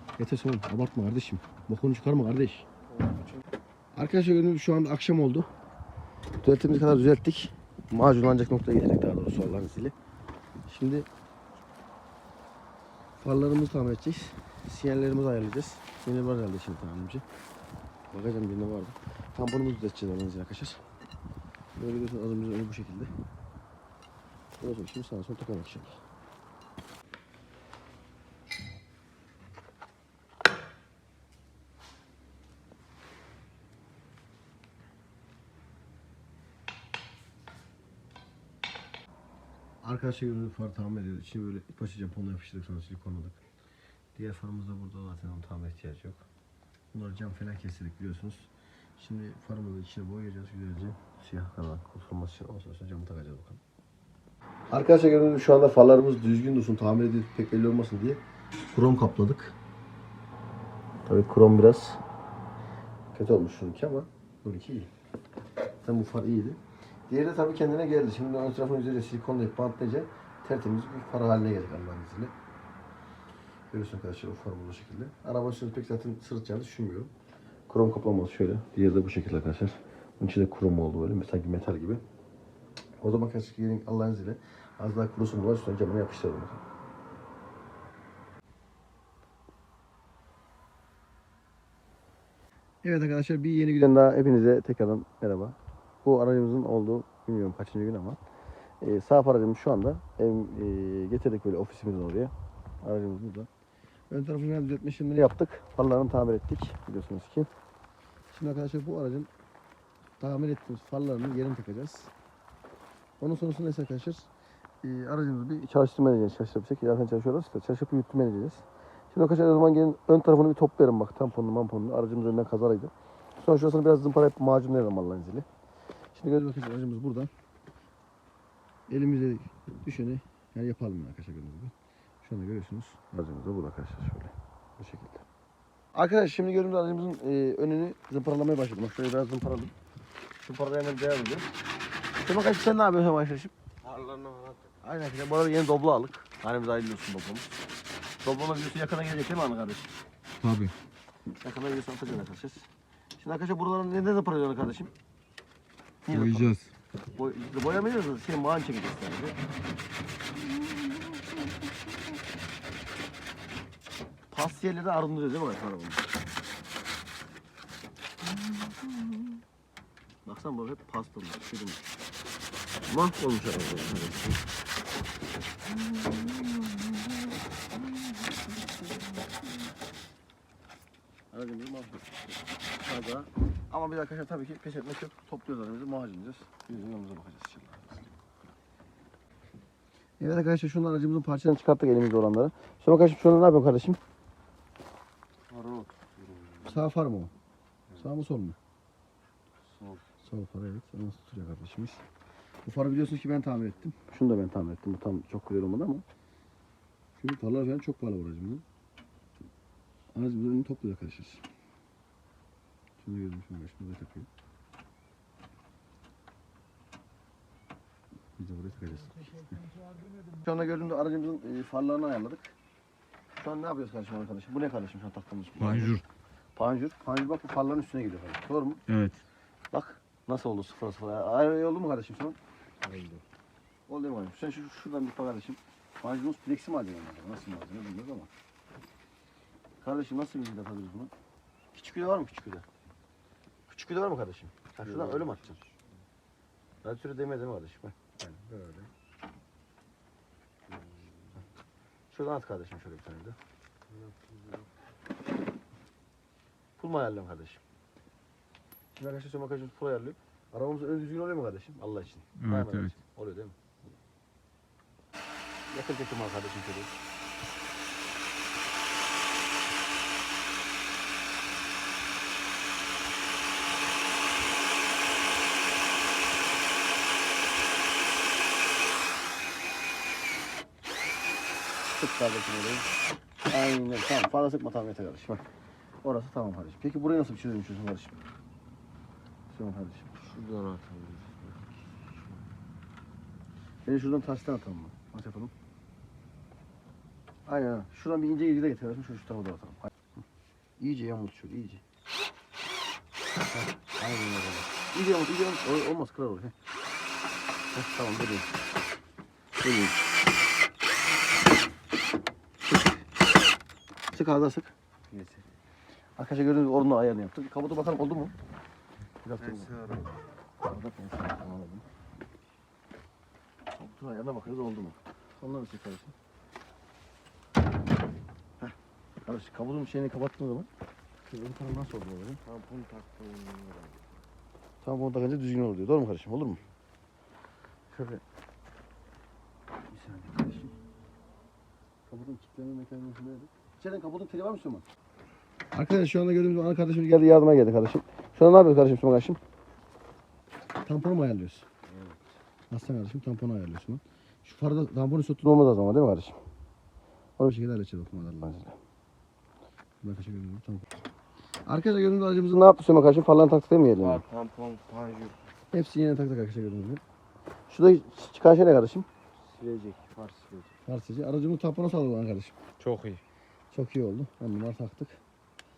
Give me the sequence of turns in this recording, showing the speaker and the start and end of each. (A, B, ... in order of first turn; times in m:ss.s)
0:00.2-0:02.7 A
0:03.9-0:05.5 A
0:06.4-0:09.9 A
0:10.7-0:11.1 A
0:13.2-0:17.2 A
0:18.1-0:20.8 A
0:21.8-0:23.1 A
0:24.6-0:26.0 A
0:39.8-0:43.4 A
0:44.2-0:46.2 A
0:46.9-0:53.6 A
0:54.7-0:58.2 A
0:58.7-0:59.6 A
1:01.1-1:02.0 A
1:03.1-1:04.9 A
1:05.8-1:12.3 A
1:13.7-1:17.1 A
1:17.7-1:22.0 A
1:23.0-1:26.6 A
1:32.8-1:38.2 A
1:38.8-1:43.5 A
1:44.1-1:47.5 A
1:48.3-1:49.3 A
1:50.2-1:52.1 A
1:53.2-1:54.3 A
1:54.8-2:05.5 A
2:06.2-2:07.3 A
2:08.9-2:15.2 A
2:15.9-2:19.7 A
2:20.4-2:21.5 A
2:22.2-2:23.5 A
2:23.8-2:24.7 B
2:24.8-2:27.5 A
2:28.2-2:29.9 A
2:30.4-2:30.7 C
2:31.4-2:34.9 A
2:36.0-2:36.5 A
2:36.1-2:36.7 C
2:37.2-2:39.4 A
2:44.3-2:46.1 A
2:48.3-2:49.3 A
2:50.2-2:51.8 A
2:52.9-2:54.4 A
2:55.9-2:56.6 A
2:58.6-2:59.1 A
3:01.3-3:08.1 A
3:10.2-3:14.0 A
3:15.5-3:16.8 B
3:16.6-3:17.3 A
3:18.0-3:18.6 A
3:19.7-3:20.0 B
3:20.2-3:22.0 A
3:22.6-3:26.0 A
3:27.2-3:28.6 A
3:30.1-3:31.4 A
3:33.0-3:34.3 A
3:38.4-3:39.6 A
3:40.3-3:42.5 A
3:43.3-3:46.0 A
3:45.6-3:46.0 C
3:46.6-3:48.8 A
3:48.9-3:49.2 C
3:49.7-3:52.4 A
3:52.8-3:53.2 B
3:53.9-3:58.3 A
3:59.8-4:01.1 A
4:01.7-4:02.6 A
4:03.7-4:05.6 A
4:04.8-4:05.7 B
4:06.8-4:08.9 A
4:10.7-4:11.3 B
4:12.1-4:13.4 A
4:13.9-4:14.7 B
4:16.8-4:17.6 A
4:19.0-4:23.6 A
4:22.4-4:22.9 C
4:25.7-4:26.9 A
4:41.9-4:42.9 A
4:43.5-4:45.4 A
4:46.0-4:48.2 A
4:49.5-4:50.1 A
4:50.2-4:51.6 B
4:53.8-4:55.5 A
4:57.5-4:59.9 A
5:00.8-5:01.8 A
5:03.5-5:06.5 A
5:07.7-5:08.5 A
5:09.6-5:10.0 A
5:12.6-5:13.0 A
5:14.1-5:14.7 A
5:15.1-5:15.4 B
5:16.2-5:18.3 A
5:19.2-5:19.8 A
5:19.4-5:20.1 B
5:20.6-5:21.8 A
5:23.8-5:26.1 A
5:28.6-5:30.7 A
5:31.2-5:32.4 A
5:32.4-5:34.0 B
5:34.8-5:36.6 A
5:37.9-5:38.2 A
5:39.9-5:40.8 A
5:42.1-5:44.8 A
5:45.7-5:49.4 A
5:50.8-5:51.7 A
5:51.9-5:52.2 B
5:52.7-5:56.4 A
5:57.4-5:58.8 A
6:00.0-6:00.9 A
6:01.7-6:04.2 A
6:04.0-6:05.4 B
6:05.7-6:07.0 A
6:07.7-6:09.1 A
6:09.4-6:10.7 B
6:10.9-6:12.5 A
6:12.8-6:13.2 B
6:13.7-6:15.2 A